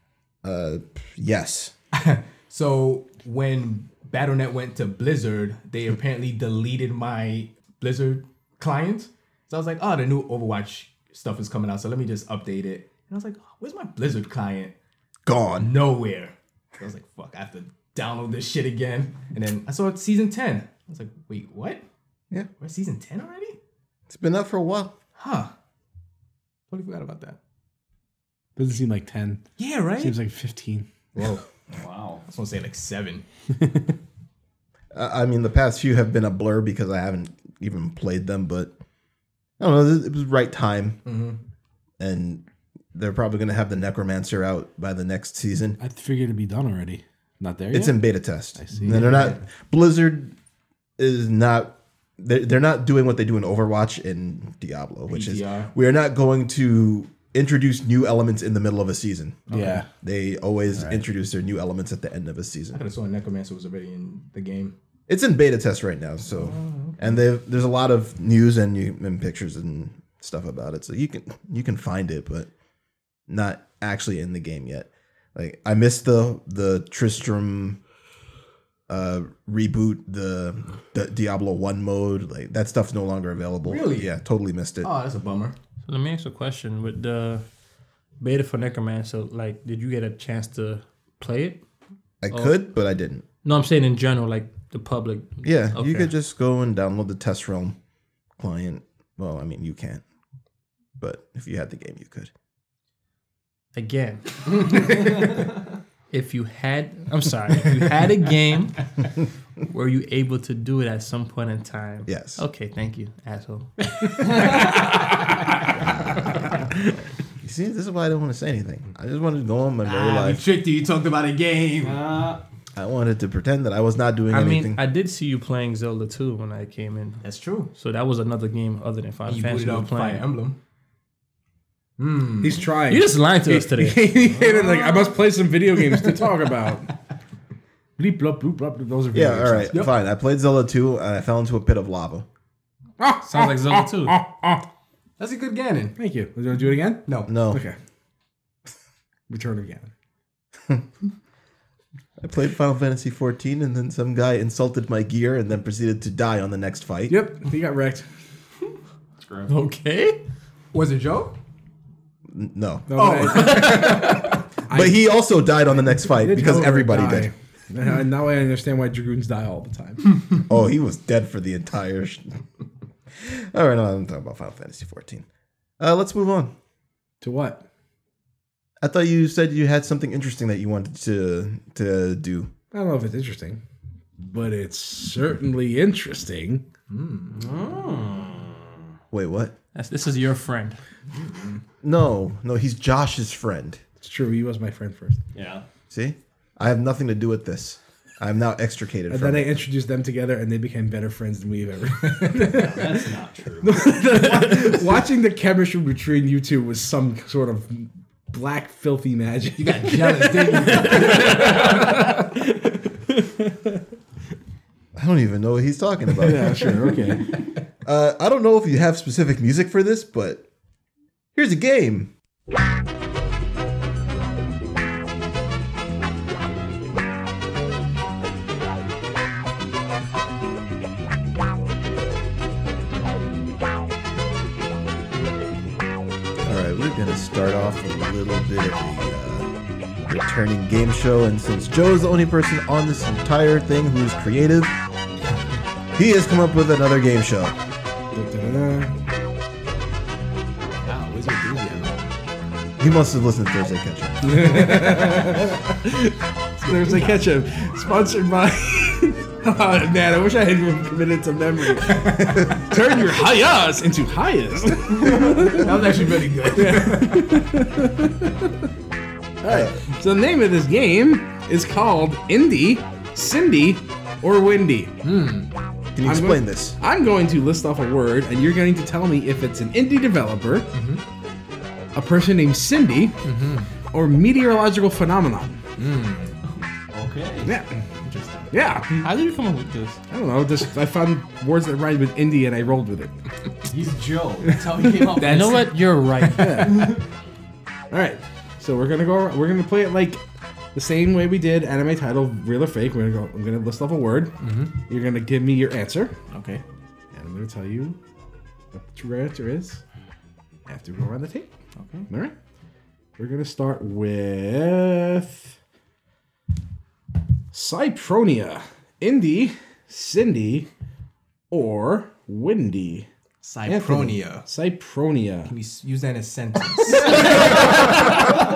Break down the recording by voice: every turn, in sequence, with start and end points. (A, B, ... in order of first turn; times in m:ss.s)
0:00.4-0:01.7 A
0:01.9-0:14.7 B
0:15.2-0:15.7 A
0:15.6-0:21.8 B
0:22.6-0:23.6 B
0:24.1-0:24.9 A
0:25.2-0:25.5 B
0:26.7-0:27.4 B
0:28.6-0:30.9 C
0:29.6-0:30.2 B
0:31.1-0:31.4 B
0:31.7-0:32.2 D
0:32.2-0:33.2 B
0:34.9-0:38.7 A
0:39.6-0:41.0 A
0:41.0-0:41.4 B
0:42.0-0:42.4 A
0:42.9-0:45.8 A
0:45.8-0:48.0 C
0:47.7-0:50.3 A
0:48.6-0:49.3 C
0:48.7-0:49.4 B
0:51.0-0:59.5 A
0:55.1-0:55.7 B
0:59.5-0:59.8 B
0:59.5-0:59.9 C
1:00.0-1:02.8 A
1:00.7-1:01.0 B
1:02.7-1:04.7 B
1:05.1-1:12.5 A
1:06.3-1:07.1 B
1:13.3-1:17.8 A
1:18.9-1:24.9 A
1:23.6-1:24.1 B
1:24.8-1:25.6 B
1:25.9-1:27.4 E
1:28.2-1:31.6 E
1:32.2-1:33.2 A
1:32.3-1:32.6 E
1:33.4-1:36.1 E
1:35.4-1:37.8 A
1:38.4-1:40.0 A
1:41.0-1:42.3 A
1:43.7-1:45.5 E
1:46.1-1:49.1 E
1:49.7-1:54.8 E
1:52.1-1:52.4 A
1:54.4-1:54.8 B
1:57.4-2:00.4 A
1:59.8-2:02.0 B
2:01.8-2:02.4 D
2:02.8-2:04.8 A
2:04.3-2:07.2 E
2:07.2-2:07.7 B
2:07.7-2:10.2 E
2:09.3-2:10.6 B
2:12.0-2:12.6 B
2:12.4-2:16.9 C
2:12.9-2:14.1 E
2:14.5-2:15.0 B
2:18.0-2:19.8 C
2:19.1-2:22.2 A
2:23.0-2:24.6 C
2:23.2-2:24.2 E
2:25.2-2:25.9 B
2:26.0-2:27.8 C
2:27.3-2:27.6 A
2:29.3-2:29.9 C
2:32.2-2:37.2 A
2:37.1-2:38.1 C
2:39.2-2:39.5 D
2:39.5-2:40.2 E
2:40.7-2:41.4 B
2:42.3-2:44.1 A
2:42.9-2:45.1 C
2:42.9-2:44.4 B
2:44.7-2:47.3 A
2:45.7-2:50.0 C
2:50.5-2:52.4 A
2:53.2-2:55.2 A
2:55.8-2:56.5 A
2:57.2-2:57.6 C
2:58.8-3:02.5 A
3:02.7-3:03.6 C
3:04.2-3:06.6 C
3:06.9-3:07.4 B
3:07.3-3:08.6 D
3:09.1-3:09.5 A
3:09.7-3:10.8 E
3:11.8-3:13.8 A
3:14.0-3:15.2 C
3:15.3-3:15.6 D
3:15.9-3:19.5 A
3:19.1-3:23.0 C
3:22.5-3:24.0 D
3:23.6-3:33.7 C
3:29.6-3:32.0 B
3:35.0-3:36.7 A
3:36.2-3:37.3 C
3:37.8-3:40.4 A
3:41.3-3:42.1 A
3:56.4-3:59.5 A
4:00.1-4:04.7 A
4:05.9-4:07.6 A
4:08.1-4:09.0 C
4:10.8-4:12.0 B
4:12.8-4:14.5 A
4:14.2-4:28.5 C
4:16.6-4:17.2 B
4:21.8-4:22.4 B
4:24.9-4:27.4 B
4:29.4-4:34.9 C
4:35.0-4:35.5 B
4:35.9-4:36.7 A
4:36.0-4:40.7 C
4:40.7-4:41.0 B
4:41.9-4:43.3 C
4:43.2-4:43.7 B
4:43.9-4:45.6 C
4:45.8-4:46.3 B
4:46.9-4:47.6 D
4:47.4-4:47.8 C
4:48.0-4:48.5 B
4:48.5-4:49.1 C
4:49.0-4:50.0 E
4:50.1-4:53.1 C
4:53.7-4:55.7 D
4:55.2-4:56.9 E
4:55.3-4:55.6 B
4:56.4-4:56.9 C
4:57.9-5:00.2 C
5:00.7-5:06.2 C
5:04.4-5:04.7 B
5:06.3-5:06.6 B
5:07.1-5:08.0 C
5:08.7-5:09.8 C
5:10.6-5:11.5 C
5:11.8-5:12.1 B
5:12.1-5:12.3 C
5:13.2-5:15.5 C
5:17.5-5:20.7 C
5:21.5-5:23.1 C
5:23.4-5:24.5 B
5:23.6-5:25.5 C
5:25.5-5:27.6 B